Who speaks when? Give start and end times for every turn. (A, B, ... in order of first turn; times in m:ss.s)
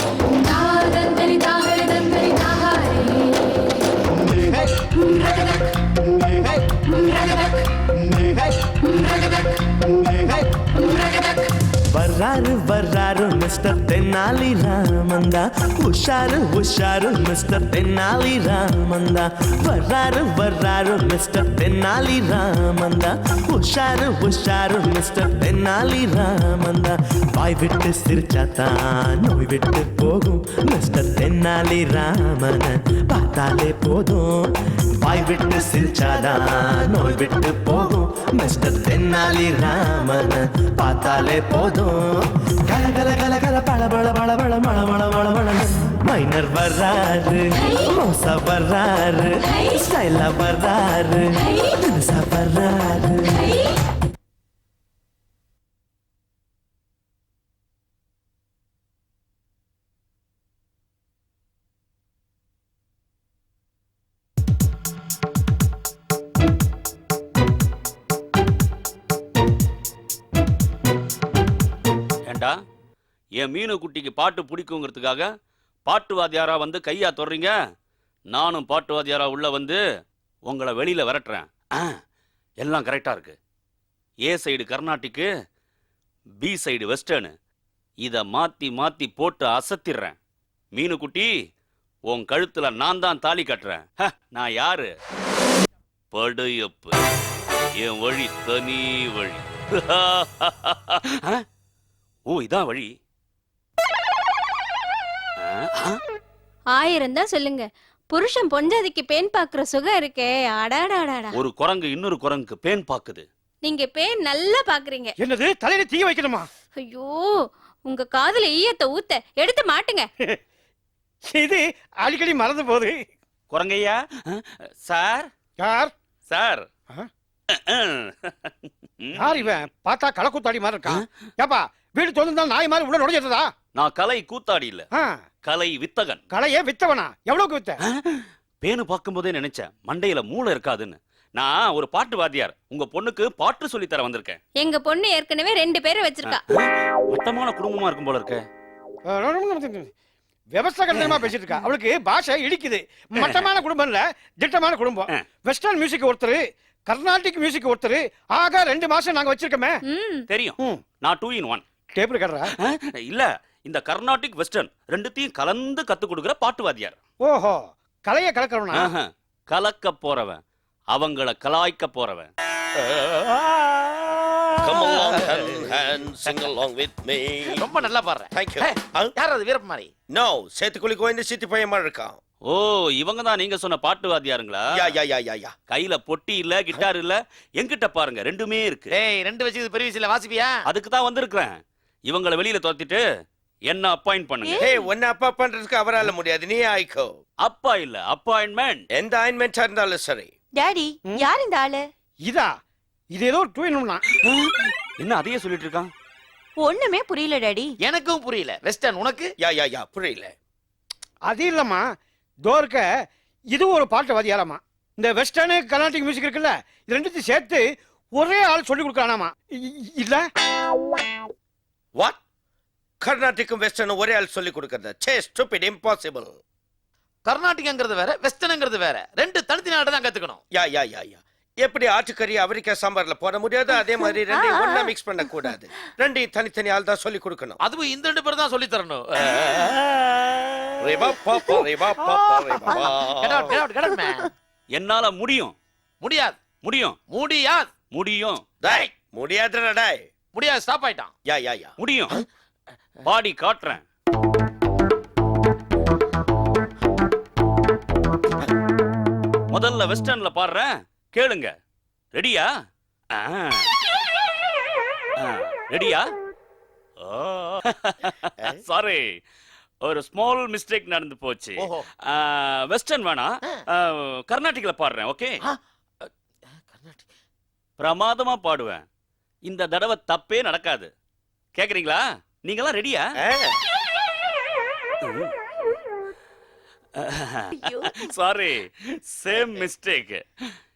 0:00.4-0:03.3 A
0:05.1-0:05.6 A
0:07.0-0:07.5 A
0:08.9-0:09.2 A
0:10.8-0:11.3 A
0:11.7-0:53.7 B
1:12.2-1:12.6 C
1:13.4-1:15.3 C
1:15.9-1:17.5 C
1:18.3-1:19.8 C
1:20.5-1:21.9 C
1:22.6-1:23.4 C
1:24.2-1:25.3 C
1:26.4-1:27.3 C
1:28.0-1:30.1 C
1:30.7-1:31.3 C
1:32.1-1:34.9 C
1:36.1-1:37.0 C
1:37.8-1:41.4 C
1:42.3-1:42.9 C
1:45.4-1:46.0 C
1:46.7-1:51.4 A
1:51.3-1:53.2 C
1:53.6-1:55.2 A
1:55.2-1:56.5 D
1:56.8-1:57.3 A
1:57.8-2:00.1 A
2:01.3-2:02.9 D
2:03.5-2:05.3 C
2:05.6-2:05.9 D
2:06.3-2:06.7 C
2:07.5-2:09.6 C
2:09.2-2:13.5 D
2:13.8-2:14.9 C
2:15.4-2:16.2 C
2:16.3-2:17.8 D
2:18.0-2:24.4 C
2:24.6-2:26.4 A
2:26.2-2:28.4 C
2:29.1-2:29.9 D
2:30.5-2:39.8 D
2:30.9-2:31.3 C
2:33.2-2:33.5 C
2:39.8-2:40.2 A
2:40.3-2:41.6 C
2:42.0-2:42.5 D
2:42.7-2:47.0 C
2:47.2-2:48.9 D
2:48.8-2:50.4 C
2:50.9-2:52.3 C
2:54.6-2:57.7 E
2:54.7-2:55.3 C
2:55.3-2:55.7 F
2:57.5-2:59.9 F
2:58.3-2:59.1 E
3:00.1-3:02.2 E
3:02.5-3:04.6 C
3:04.7-3:05.5 E
3:05.7-3:08.9 C
3:08.9-3:10.6 F
3:10.7-3:11.6 C
3:12.1-3:13.0 C
3:13.7-3:14.6 C
3:14.4-3:14.9 G
3:14.6-3:17.1 E
3:17.4-3:18.8 C
3:18.9-3:20.3 E
3:20.6-3:21.9 G
3:22.2-3:22.5 D
3:23.1-3:24.0 D
3:24.2-3:25.9 C
3:26.6-3:27.7 G
3:27.8-3:29.3 F
3:29.4-3:30.3 E
3:31.3-3:31.8 D
3:32.4-3:32.8 D
3:33.5-3:37.6 D
3:38.2-3:40.2 D
3:43.0-3:46.4 E
3:47.2-3:50.4 F
3:50.5-3:57.6 E
3:54.3-3:54.9 G
3:57.6-3:59.5 F
3:59.2-4:00.0 E
4:00.8-4:03.6 E
4:01.1-4:04.3 F
4:04.7-4:05.6 C
4:06.0-4:06.4 F
4:06.6-4:07.0 C
4:07.1-4:07.7 F
4:07.9-4:08.4 C
4:08.6-4:10.1 E
4:08.6-4:08.9 F
4:10.3-4:11.1 F
4:11.2-4:11.7 E
4:11.8-4:12.2 C
4:13.0-4:13.8 C
4:19.5-4:21.5 C
4:22.1-4:22.5 C
4:23.1-4:23.7 C
4:25.2-4:26.1 C
4:27.0-4:29.1 C
4:29.8-4:35.4 C
4:31.6-4:31.9 F
4:35.4-4:37.1 F
4:37.8-4:38.8 C
4:39.4-4:40.9 C
4:41.6-4:43.0 C
4:43.2-4:43.6 E
4:45.0-4:45.3 C
4:47.0-4:50.2 C
4:47.5-4:48.0 G